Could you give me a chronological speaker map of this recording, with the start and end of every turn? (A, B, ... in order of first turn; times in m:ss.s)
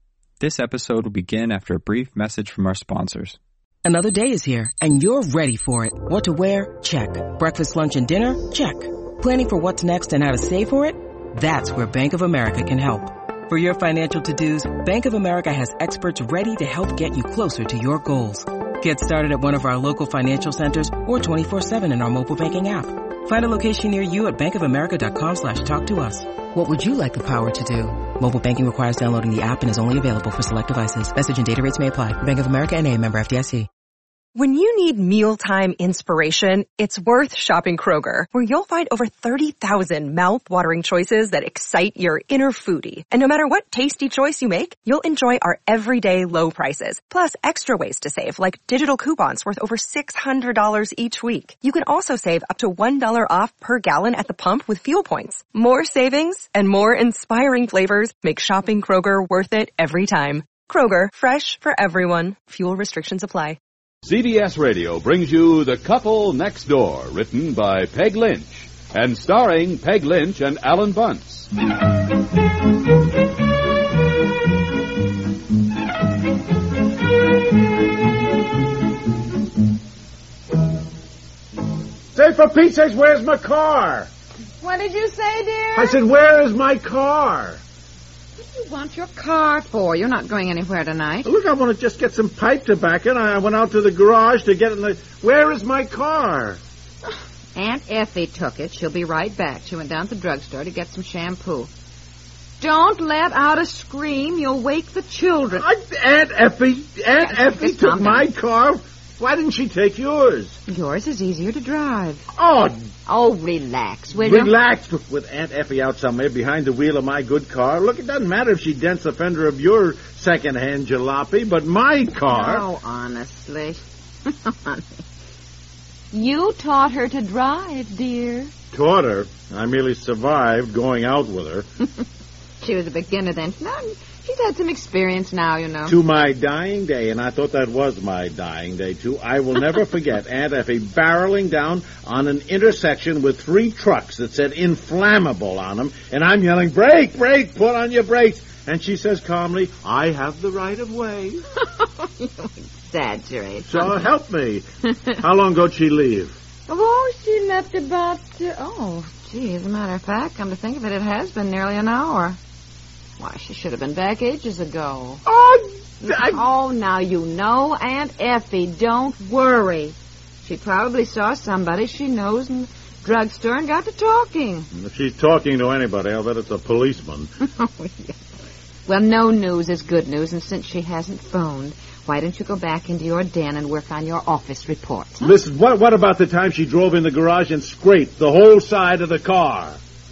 0:00.4-0:03.4 A
0:03.8-0:33.7 B
0:34.4-1:03.6 C
1:04.0-1:11.5 D
1:22.1-1:24.1 E
1:24.6-1:26.0 F
1:25.8-1:27.6 E
1:28.4-1:31.3 F
1:31.2-1:36.6 E
1:37.6-1:41.7 F
1:42.6-1:45.6 F
1:45.5-1:50.6 E
1:47.2-1:48.3 F
1:50.7-1:52.3 F
1:52.4-1:52.8 E
1:53.1-1:54.5 F
1:54.2-2:02.7 E
2:02.3-2:05.0 F
2:06.1-2:08.5 F
2:08.7-2:11.7 E
2:12.6-2:16.0 F
2:15.9-2:31.4 E
2:31.6-2:34.0 F
2:33.6-2:34.6 E
2:35.2-2:36.3 E
2:36.7-2:42.4 F
2:43.2-2:45.2 F
2:45.3-2:46.4 E
2:46.0-2:54.7 F
2:54.7-2:57.3 E
2:57.6-2:58.2 F
2:58.9-3:05.3 F
3:05.2-3:09.8 E